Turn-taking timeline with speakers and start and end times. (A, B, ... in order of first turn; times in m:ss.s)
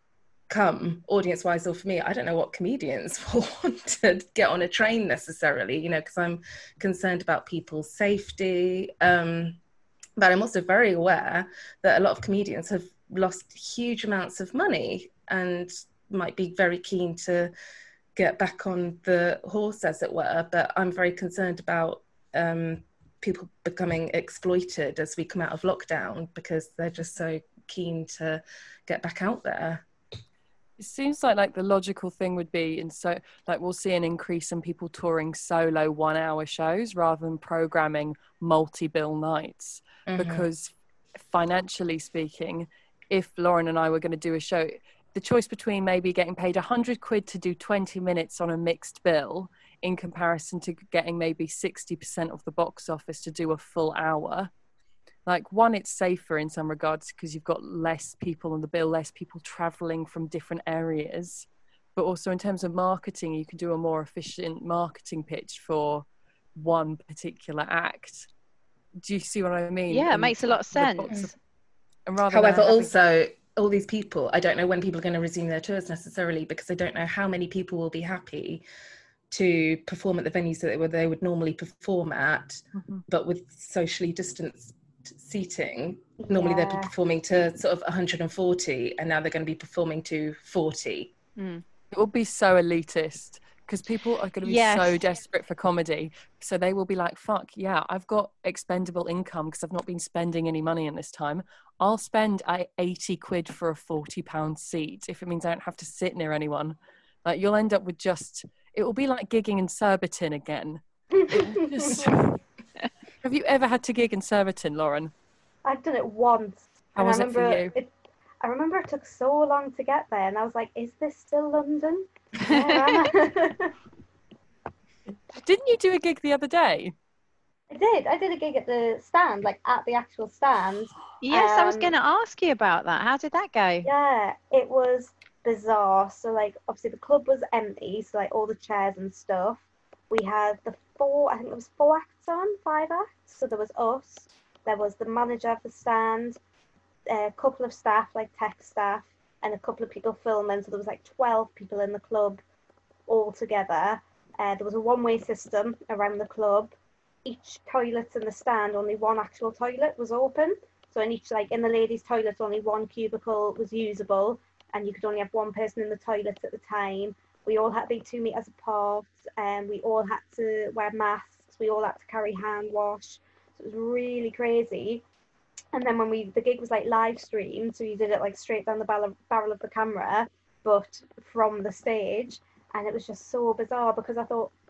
0:00.5-0:09.6 A
0:10.2-0:17.5 A
0:18.2-0:29.8 A
0:30.8-0:54.5 B
0:40.1-0:40.4 A
0:55.2-1:08.3 B
1:09.0-1:11.3 B
1:09.9-1:11.1 C
1:12.0-1:12.9 B
1:12.3-1:18.6 A
1:19.3-1:31.1 A
1:22.7-1:23.0 B
1:26.2-1:26.9 D
1:31.4-1:31.6 C
1:31.9-1:52.4 B
1:34.4-1:35.1 C
1:51.1-1:52.1 D
1:53.2-1:55.1 B
1:55.6-1:57.9 D
1:56.9-1:57.7 B
1:58.4-2:03.7 D
2:02.4-2:03.1 C
2:05.3-2:06.9 B
2:07.7-2:11.9 D
2:11.2-2:13.9 C
2:13.8-2:26.4 D
2:27.1-2:32.4 D
2:33.1-2:36.7 D
2:37.2-2:55.0 D
2:55.7-3:04.5 D